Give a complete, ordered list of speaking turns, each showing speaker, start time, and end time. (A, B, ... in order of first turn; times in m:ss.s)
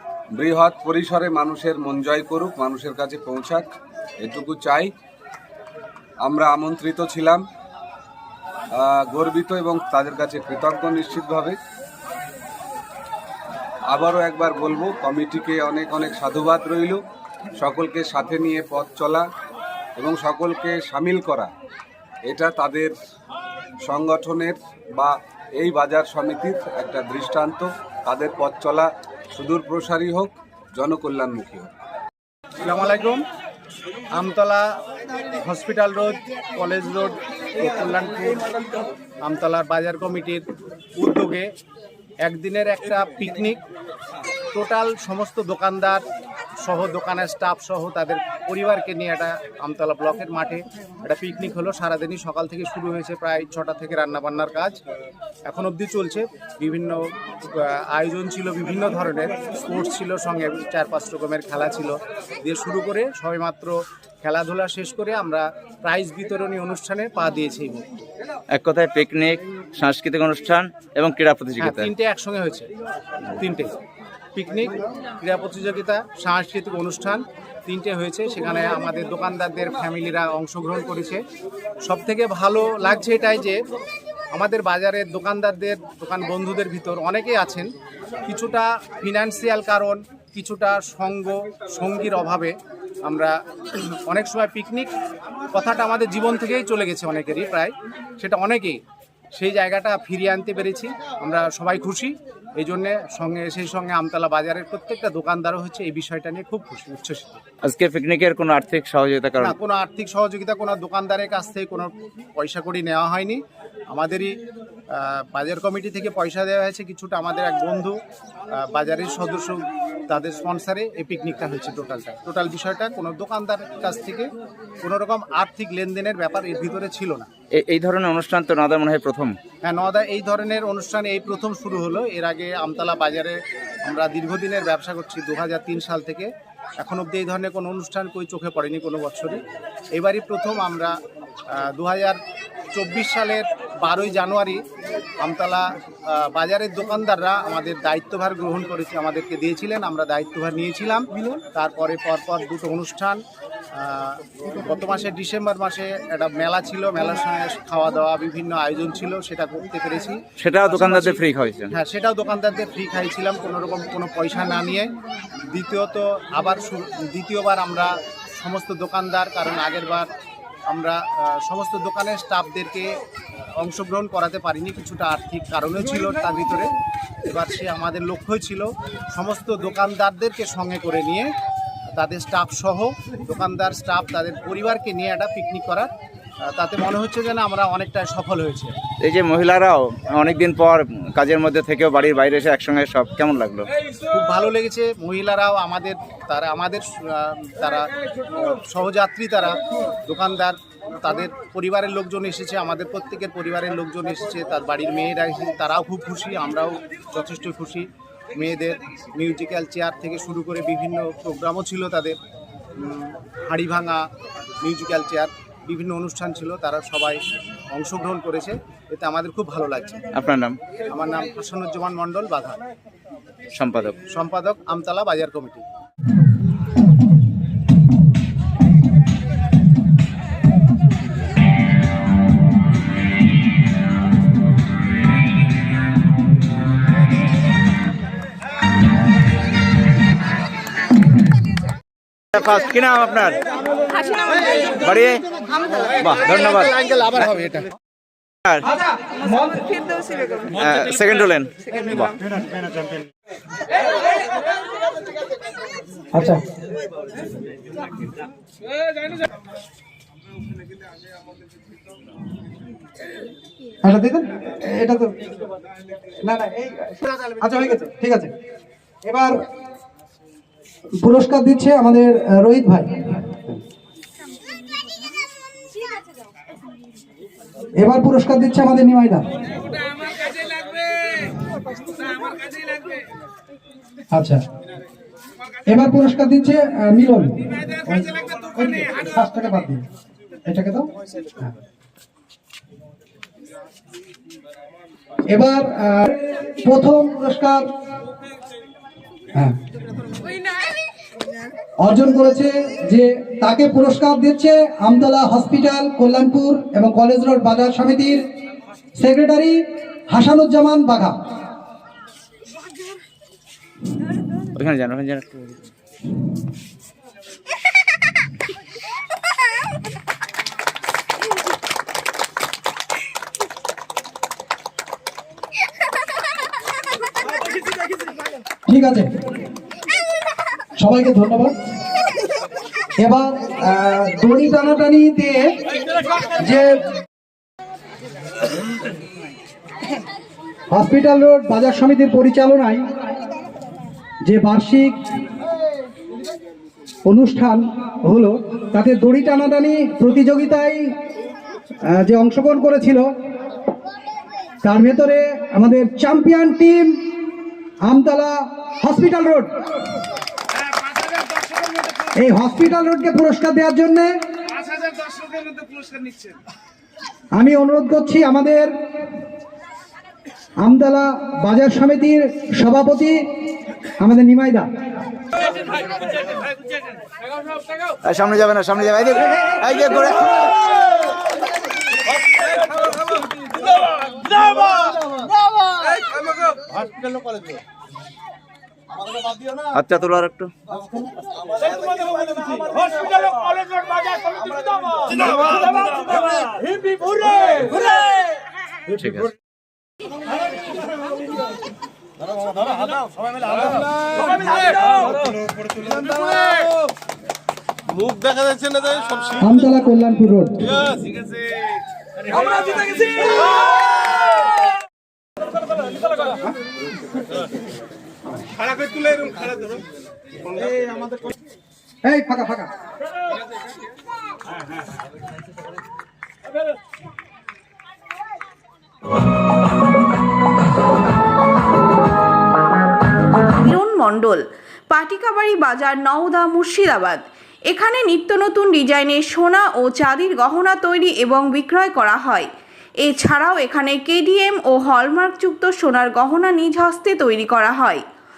0:00.3-0:03.7 A
0:04.2-0:04.9 A
0:06.2-0:07.4 A
0:08.7-0:11.6 A
0:13.9-0:17.0 A
0:17.6-0:19.2 A
0:20.0-0:21.5 A
0:22.2-0:22.9 A
0:23.8-0:31.7 A
0:32.6-0:33.2 B
0:34.1-0:34.7 B
0:35.4-0:38.4 B
0:39.2-0:40.4 B
0:41.0-0:41.5 B
0:42.2-0:43.6 B
0:44.5-0:46.0 B
0:46.6-0:54.8 B
0:55.5-0:57.0 B
0:57.5-1:07.8 B
1:08.5-1:11.9 C
1:11.6-1:12.7 B
1:13.4-1:13.7 B
1:14.4-1:21.2 B
1:21.8-1:23.6 B
1:24.3-1:27.7 B
1:28.3-1:34.9 B
1:35.5-1:38.8 B
1:39.3-1:47.4 B
1:47.6-1:49.6 C
1:49.4-1:54.3 B
1:54.9-1:58.0 B
1:58.5-2:04.3 B
2:04.8-2:07.3 B
2:07.5-2:09.4 C
2:09.6-2:19.4 B
2:19.9-2:20.9 B
2:21.6-2:22.2 B
2:22.7-2:24.6 B
2:25.2-2:33.2 B
2:33.8-2:41.2 B
2:40.4-2:41.7 C
2:41.7-2:44.9 B
2:45.5-2:50.1 B
2:50.7-2:53.0 B
2:53.6-2:56.7 B
2:57.3-3:01.3 B
3:01.9-3:05.9 B
3:06.4-3:08.7 B
3:09.0-3:13.7 C
3:14.1-3:32.2 B
3:32.8-3:34.0 B
3:34.6-3:40.0 B
3:40.1-3:40.6 C
3:40.9-3:42.6 B
3:43.5-3:44.0 C
3:44.1-3:45.6 B
4:02.3-4:03.4 C
4:04.7-4:05.2 C
4:06.0-4:06.7 C
4:06.3-4:07.7 B
4:08.4-4:08.7 C
4:09.3-4:09.6 D
4:10.5-4:12.2 C
4:16.1-4:16.4 D
4:23.8-4:25.1 D
4:26.2-4:28.3 D
4:29.0-4:29.4 D
4:31.0-4:33.5 D
4:37.8-4:39.2 D
4:44.1-4:44.4 D
4:45.7-4:49.8 D
4:50.4-4:50.9 D
4:55.3-4:57.6 D
5:01.8-5:08.2 D
5:09.0-5:11.2 D
5:14.5-5:15.6 C
5:28.7-5:29.1 D
5:30.8-5:31.5 D
5:33.0-5:35.5 D
5:36.4-5:36.8 D
5:40.7-5:42.8 D
5:44.2-5:45.0 D
5:47.0-5:50.9 D
5:51.8-5:53.1 D
5:54.6-5:57.0 D
5:57.8-5:59.5 D
6:02.1-6:04.1 D
6:07.3-6:08.7 D
6:10.6-6:13.2 D
6:14.0-6:14.7 D
6:18.0-6:20.5 C
6:29.7-6:30.5 C
6:38.9-6:39.3 C
6:49.4-6:50.6 D
7:02.0-7:02.7 D
7:13.5-7:22.5 E
7:23.0-7:28.0 E